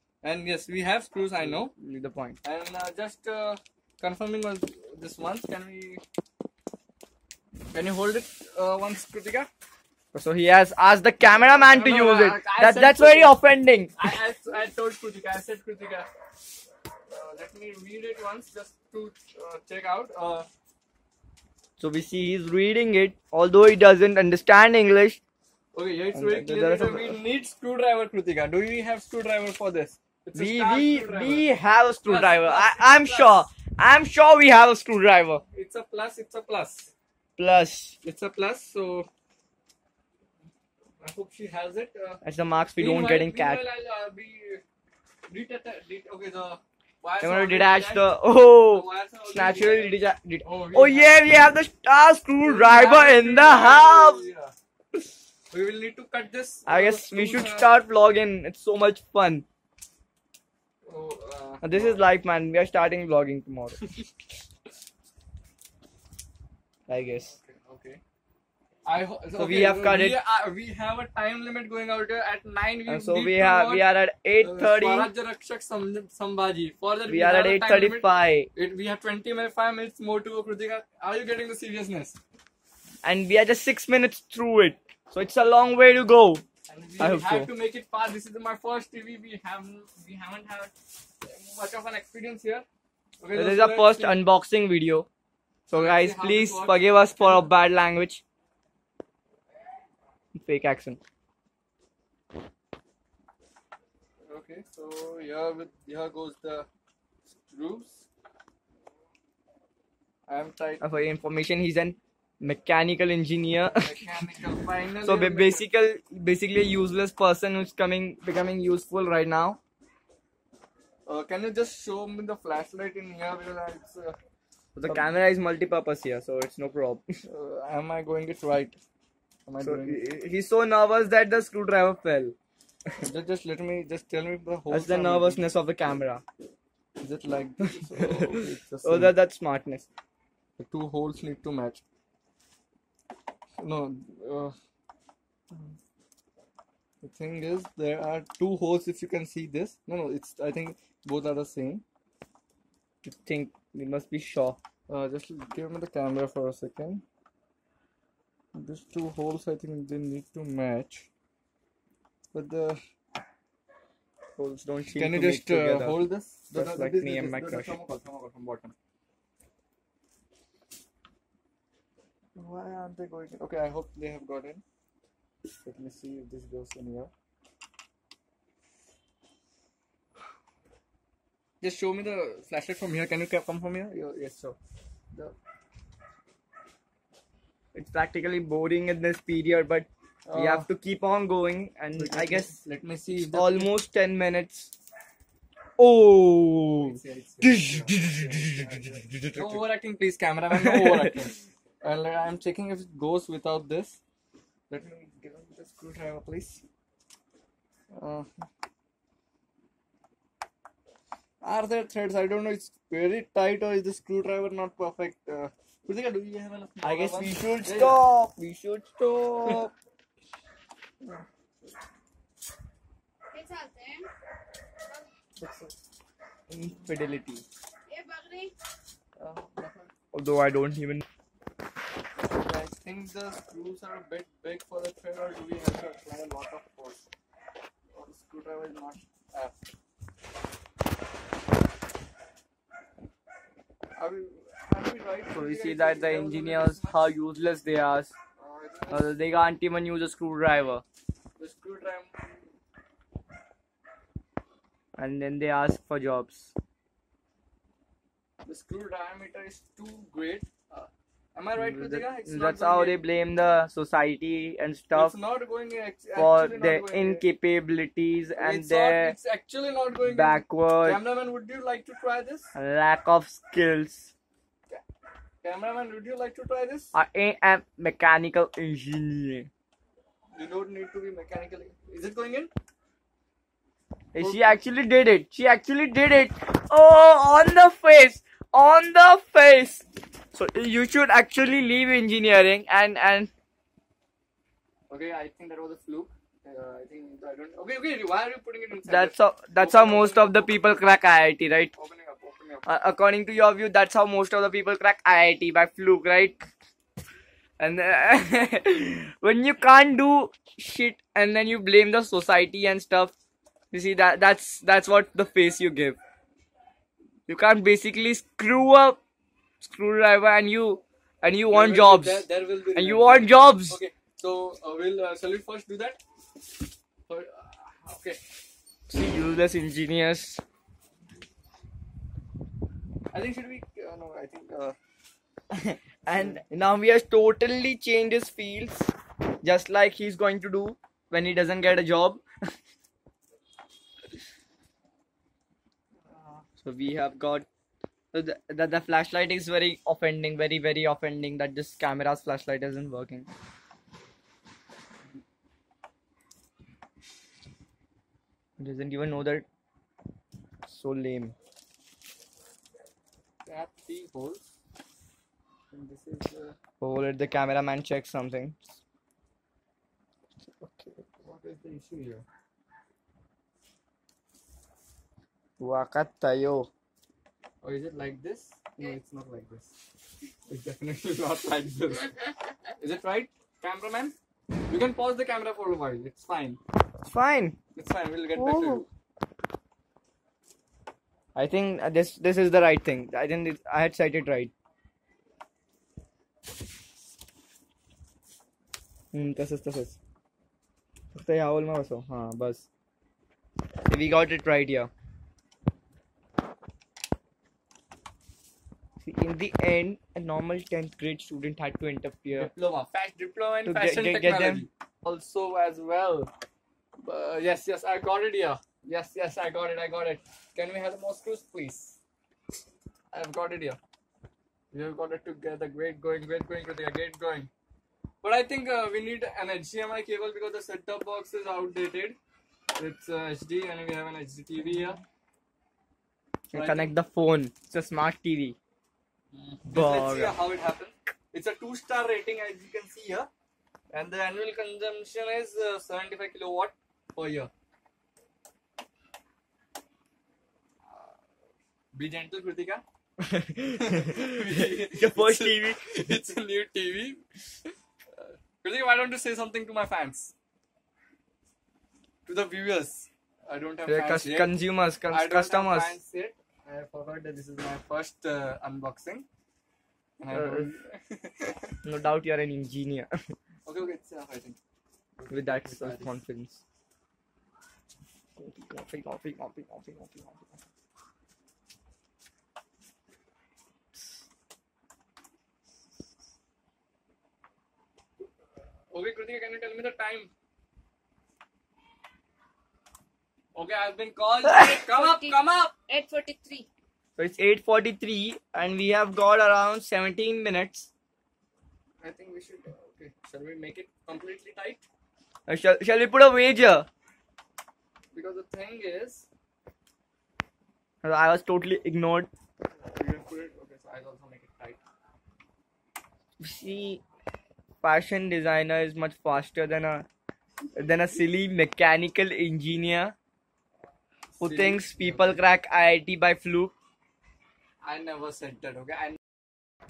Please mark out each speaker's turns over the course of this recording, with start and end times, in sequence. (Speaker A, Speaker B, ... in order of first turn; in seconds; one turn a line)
Speaker A: 0.2-1.7
Speaker B: 1.4-2.4
Speaker A: 2.4-6.0
Speaker A: 7.7-9.5
Speaker B: 10.1-13.9
Speaker A: 11.3-13.3
Speaker A: 13.9-16.1
Speaker A: 17.1-20.5
Speaker B: 21.8-25.2
Speaker A: 25.7-31.5
Speaker B: 26.1-27.2
Speaker B: 30.3-35.4
Speaker A: 32.0-33.5
Speaker A: 35.5-36.9
Speaker B: 37.4-38.0
Speaker A: 38.0-39.1
Speaker A: 41.0-42.2
Speaker B: 42.2-43.6
Speaker A: 42.8-44.6
Speaker A: 45.3-51.1
Speaker B: 47.2-54.2
Speaker A: 52.4-54.5
Speaker A: 55.5-57.7
Speaker B: 56.6-59.4
Speaker A: 60.8-62.0
Speaker B: 61.6-63.8
Speaker B: 66.9-67.3
Speaker A: 67.2-68.0
Speaker A: 68.8-82.2
Speaker B: 69.3-70.2
Speaker B: 72.9-75.1
Speaker B: 77.1-78.5
Speaker B: 83.0-86.4
Speaker A: 86.7-92.7
Speaker B: 87.0-87.5
Speaker A: 93.2-94.2
Speaker B: 93.3-95.1
Speaker B: 95.7-98.2
Speaker A: 95.7-97.5
Speaker B: 100.3-101.0
Speaker A: 104.3-106.7
Speaker A: 107.5-108.0
Speaker A: 110.3-110.8
Speaker B: 110.8-114.1
Speaker A: 113.8-115.7
Speaker B: 115.0-119.6
Speaker A: 121.1-124.2
Speaker B: 124.8-127.2
Speaker A: 127.2-128.8
Speaker A: 129.4-130.0
Speaker B: 129.6-132.3
Speaker A: 133.0-135.5
Speaker B: 134.7-136.2
Speaker A: 137.0-139.1
Speaker B: 137.8-139.9
Speaker A: 140.6-141.8
Speaker A: 143.6-144.5
Speaker A: 147.0-151.8
Speaker B: 153.0-154.6
Speaker A: 154.9-157.0
Speaker A: 158.5-161.1
Speaker A: 162.3-162.8
Speaker B: 164.4-167.8
Speaker A: 164.9-168.7
Speaker A: 172.3-174.6
Speaker A: 175.6-177.1
Speaker A: 181.6-184.6
Speaker B: 187.7-192.6
Speaker A: 190.2-190.7
Speaker A: 191.9-193.8
Speaker B: 193.2-194.7
Speaker B: 195.8-199.7
Speaker A: 196.8-204.0
Speaker B: 200.5-201.1
Speaker A: 204.7-206.6
Speaker A: 207.9-208.3
Speaker A: 211.4-218.0
Speaker B: 216.8-219.7
Speaker C: 223.3-224.1
Speaker A: 225.4-225.7
Speaker B: 226.5-227.4
Speaker C: 227.9-228.5
Speaker A: 229.2-229.9
Speaker B: 230.1-231.0
Speaker A: 232.2-237.0
Speaker A: 237.9-239.6
Speaker A: 244.0-247.0
Speaker B: 245.3-248.1
Speaker A: 248.4-249.2
Speaker B: 248.9-250.8
Speaker A: 251.4-252.5
Speaker B: 255.0-256.5
Speaker A: 258.4-263.0
Speaker B: 261.6-265.2
Speaker A: 264.9-267.2
Speaker B: 266.1-269.1
Speaker A: 268.4-272.5
Speaker B: 270.0-271.0
Speaker B: 272.5-274.1
Speaker A: 275.4-276.9
Speaker B: 276.9-279.5
Speaker A: 280.3-282.5
Speaker B: 284.1-293.3
Speaker A: 284.2-284.6
Speaker A: 294.9-300.5
Speaker B: 298.9-301.7
Speaker A: 301.7-302.6
Speaker B: 302.6-306.5
Speaker B: 307.6-313.1
Speaker B: 313.7-316.0
Speaker B: 317.3-319.0
Speaker B: 319.6-323.8
Speaker A: 321.5-326.0
Speaker A: 327.1-328.3
Speaker B: 328.9-330.4
Speaker A: 333.1-334.8
Speaker B: 335.5-338.9
Speaker B: 339.4-342.5
Speaker A: 346.1-346.4
Speaker B: 346.6-347.5
Speaker B: 348.1-353.3
Speaker B: 358.6-359.4
Speaker B: 360.6-361.3
Speaker A: 363.4-364.4
Speaker A: 365.7-366.6
Speaker B: 366.8-368.6
Speaker B: 370.6-371.0
Speaker A: 371.2-372.2
Speaker B: 375.6-376.7
Speaker A: 377.6-379.7
Speaker A: 380.5-382.1
Speaker A: 382.8-384.1
Speaker A: 384.7-386.6
Speaker B: 387.0-387.6
Speaker A: 387.7-388.9
Speaker B: 388.3-388.8
Speaker B: 391.3-394.5
Speaker B: 399.1-400.0
Speaker B: 401.1-402.6
Speaker B: 403.8-404.9
Speaker B: 409.0-412.5
Speaker A: 412.3-416.3
Speaker B: 413.6-414.7
Speaker A: 417.0-422.0
Speaker A: 423.1-423.8
Speaker A: 424.7-427.5
Speaker A: 428.2-432.2
Speaker A: 432.8-435.0
Speaker B: 436.5-438.6
Speaker A: 436.5-436.9
Speaker A: 439.3-443.3
Speaker B: 439.7-440.4
Speaker A: 443.9-447.5
Speaker A: 451.9-452.8
Speaker B: 453.2-455.8
Speaker A: 453.8-457.2
Speaker A: 458.1-460.3
Speaker A: 462.2-469.2
Speaker B: 463.8-465.9
Speaker A: 470.2-471.8
Speaker B: 470.3-470.7
Speaker B: 471.8-473.3
Speaker A: 473.6-474.6
Speaker A: 475.2-476.1
Speaker B: 475.3-476.6
Speaker B: 478.4-480.6
Speaker A: 488.9-490.3
Speaker A: 493.5-495.7
Speaker C: 494.8-496.7
Speaker B: 497.2-500.9
Speaker A: 502.0-504.9
Speaker B: 505.5-506.9
Speaker A: 508.1-509.2
Speaker B: 511.0-512.3
Speaker A: 512.8-514.8
Speaker B: 516.4-517.0
Speaker B: 517.8-520.0
Speaker B: 520.7-523.1
Speaker A: 524.4-525.4
Speaker B: 524.4-526.7
Speaker A: 527.8-529.2